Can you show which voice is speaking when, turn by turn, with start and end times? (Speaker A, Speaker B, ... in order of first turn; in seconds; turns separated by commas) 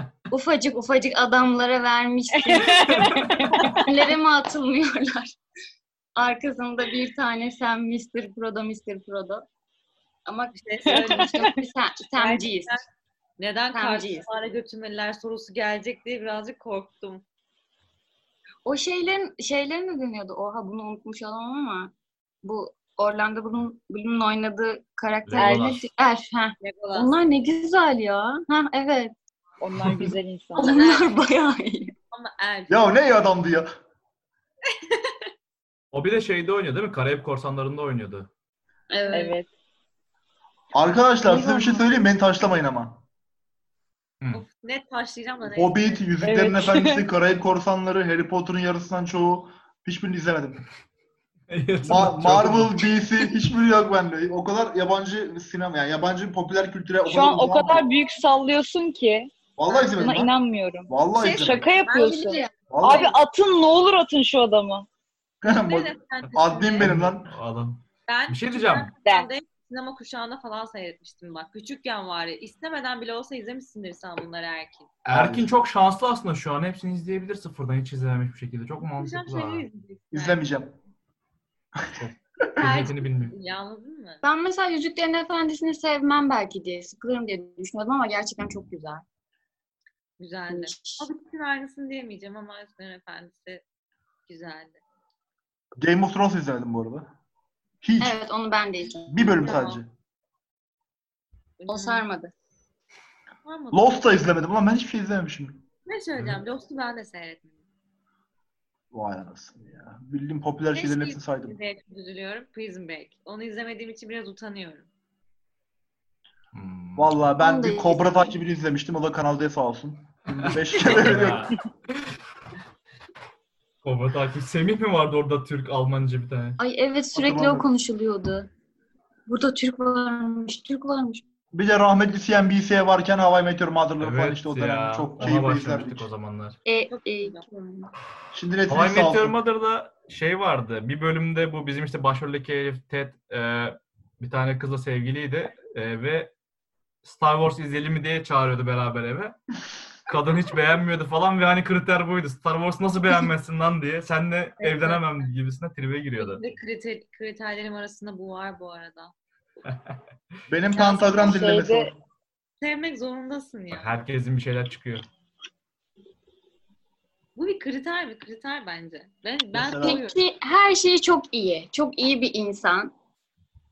Speaker A: 0.3-5.4, Speaker B: 2.4-3.9, Speaker A: 6.2-9.4, Speaker A: 10.3-12.8, Speaker C: 10.5-12.9, Speaker B: 10.9-11.4, Speaker C: 13.4-17.2, Speaker A: 13.7-14.3, Speaker A: 18.6-29.1, Speaker D: 25.2-25.9, Speaker B: 25.4-25.7, Speaker C: 26.6-27.1, Speaker B: 29.6-30.8, Speaker A: 30.6-31.9, Speaker C: 30.6-31.2, Speaker C: 32.1-32.8, Speaker E: 32.7-33.7, Speaker C: 34.7-35.1, Speaker D: 35.9-38.3, Speaker A: 38.9-39.4, Speaker B: 39.1-39.5, Speaker E: 40.7-43.0, Speaker C: 44.3-46.2, Speaker E: 45.5-50.6, Speaker B: 46.2-47.0, Speaker D: 51.5-53.0, Speaker E: 51.9-57.9, Speaker B: 57.1-59.3, Speaker E: 59.6-60.3, Speaker B: 60.0-64.9, Speaker E: 60.9-61.7, Speaker C: 61.5-63.0, Speaker A: 61.9-62.5, Speaker E: 62.7-63.1, Speaker E: 65.4-67.3, Speaker C: 65.7-66.9, Speaker D: 66.8-68.9, Speaker C: 68.1-74.9, Speaker D: 75.0-79.7, Speaker E: 75.1-75.5, Speaker C: 78.8-80.4, Speaker E: 80.1-80.8, Speaker D: 82.0-83.4, Speaker C: 82.6-84.2, Speaker A: 84.2-89.0, Speaker C: 90.2-93.6, Speaker A: 90.5-91.1, Speaker C: 94.3-94.8, Speaker E: 95.8-97.1, Speaker E: 97.8-98.2, Speaker A: 98.0-99.4, Speaker E: 99.1-99.9, Speaker C: 99.3-99.8, Speaker C: 101.6-102.1, Speaker A: 101.7-102.3, Speaker C: 103.5-104.1, Speaker E: 103.7-105.7, Speaker C: 105.9-107.6, Speaker E: 108.9-111.6, Speaker C: 110.7-114.9, Speaker D: 116.5-117.3, Speaker E: 117.0-121.5, Speaker A: 117.4-118.4, Speaker D: 120.3-122.1, Speaker D: 123.8-126.6, Speaker A: 126.6-128.5, Speaker E: 127.1-127.7, Speaker A: 129.3-131.2, Speaker E: 131.5-136.1, Speaker D: 134.0-136.6, Speaker A: 136.7-137.9, Speaker C: 136.9-137.4, Speaker E: 138.3-139.4, Speaker D: 138.7-146.3, Speaker D: 147.0-149.4, Speaker D: 150.1-156.5, Speaker C: 154.6-155.1, Speaker C: 156.2-159.1, Speaker D: 159.7-160.0, Speaker E: 160.5-161.9, Speaker C: 160.8-161.4, Speaker B: 161.2-161.9, Speaker C: 162.6-163.9, Speaker D: 163.7-165.1, Speaker C: 167.4-170.2, Speaker E: 169.5-170.0, Speaker A: 169.8-172.9